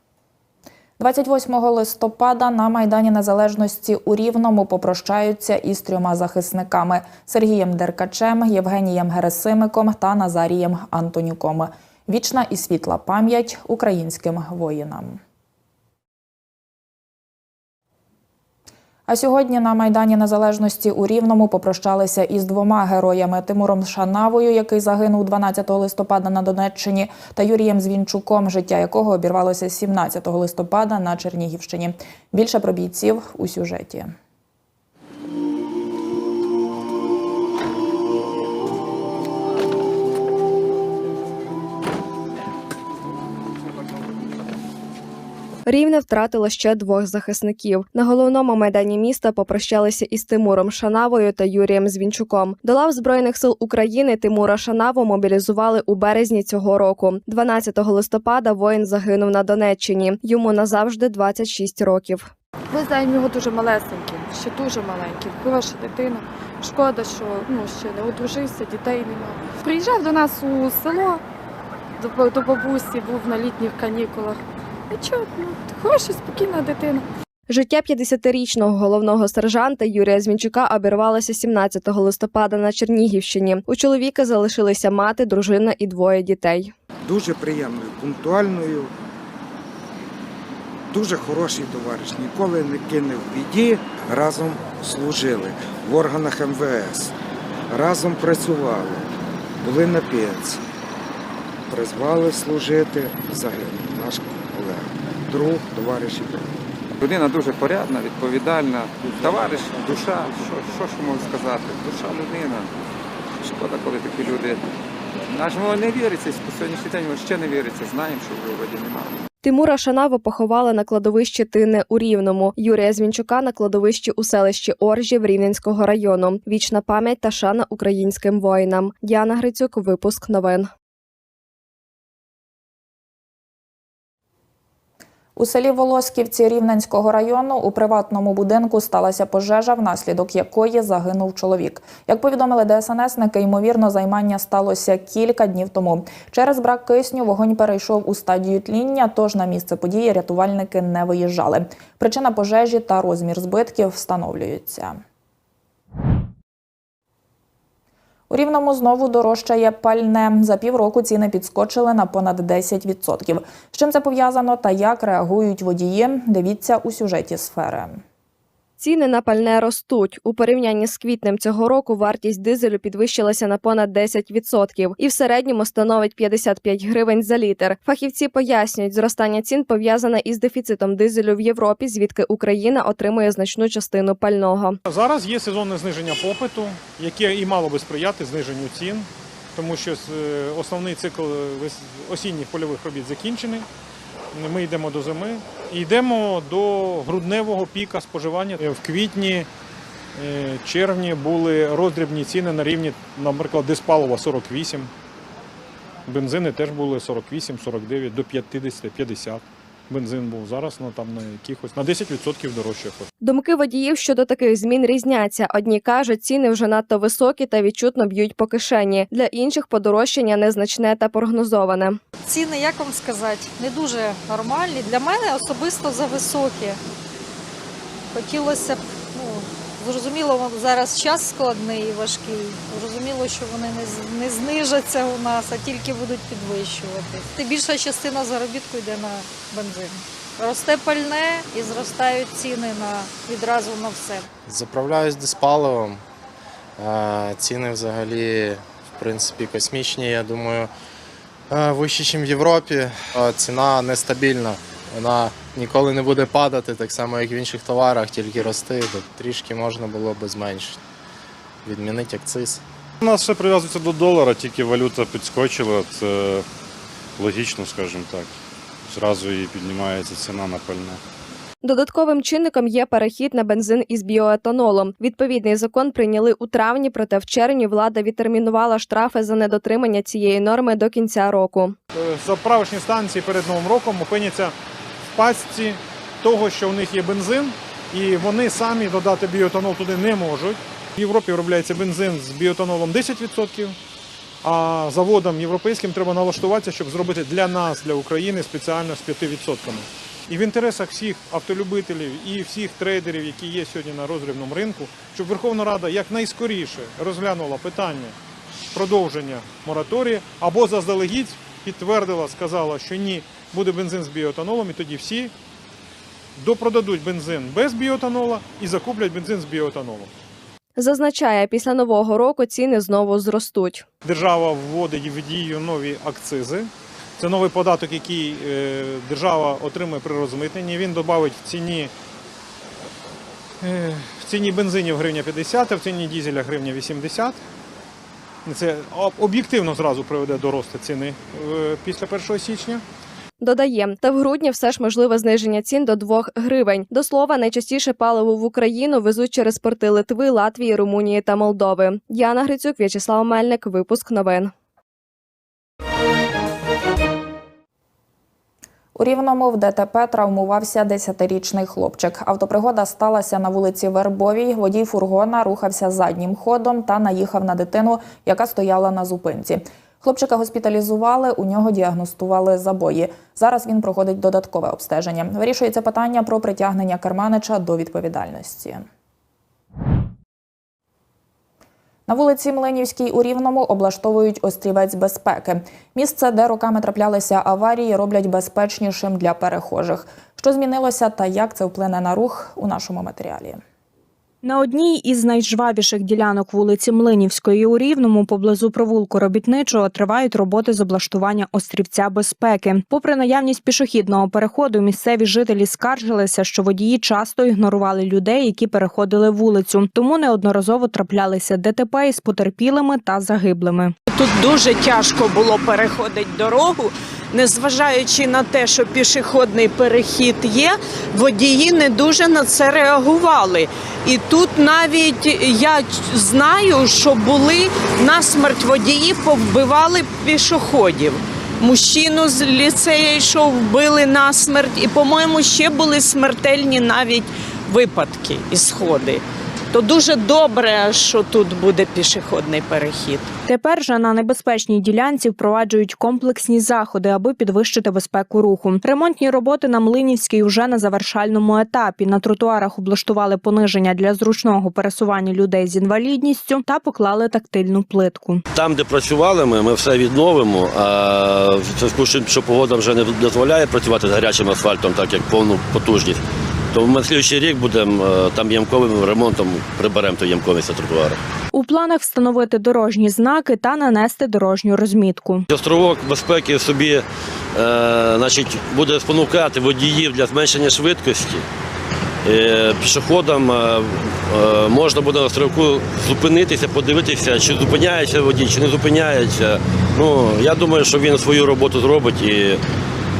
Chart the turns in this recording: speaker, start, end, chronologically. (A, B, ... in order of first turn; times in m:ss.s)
0:01.0-0:15.2 A
0:19.1-0:34.1 A
0:45.7-1:02.3 B
1:02.7-1:11.2 C
1:12.0-1:17.0 C
1:17.5-1:26.7 B
1:27.0-1:28.9 D
1:30.9-1:37.1 D
1:37.7-1:39.1 D
1:39.6-1:40.6 D
1:41.7-1:46.5 D
1:47.0-1:52.7 E
1:53.4-1:54.6 E
1:55.3-1:59.1 E
1:59.4-2:10.7 B
2:15.4-2:35.0 A
2:38.3-2:48.0 A
2:48.8-3:04.8 B
3:04.8-3:13.7 F
3:14.3-3:19.5 F
3:20.1-3:24.9 F
3:26.1-3:33.1 F
3:33.2-3:42.0 B
3:42.3-3:46.8 G
3:48.1-4:04.2 G
4:04.4-4:06.0 H
4:06.8-4:10.7 H
4:11.5-4:20.8 H
4:21.6-4:22.6 H
4:23.0-4:26.4 I
4:27.2-4:31.0 I
4:31.6-4:41.8 B
4:41.9-4:44.5 F
4:45.1-4:53.8 F
4:54.4-5:08.1 F
5:08.7-5:15.3 F
5:16.4-5:20.1 F
5:20.8-5:23.8 B
5:24.0-5:31.9 F
5:33.6-5:37.4 F
5:38.4-5:42.8 F
5:43.4-5:54.5 B
5:58.9-6:18.8 A
6:22.1-6:33.6 A
6:34.4-6:53.9 J
6:54.1-7:23.3 K
7:23.4-7:38.4 J
7:38.5-7:46.2 L
7:46.7-7:51.2 L
7:51.5-7:55.4 J
7:55.5-8:01.4 L
8:02.2-8:12.6 L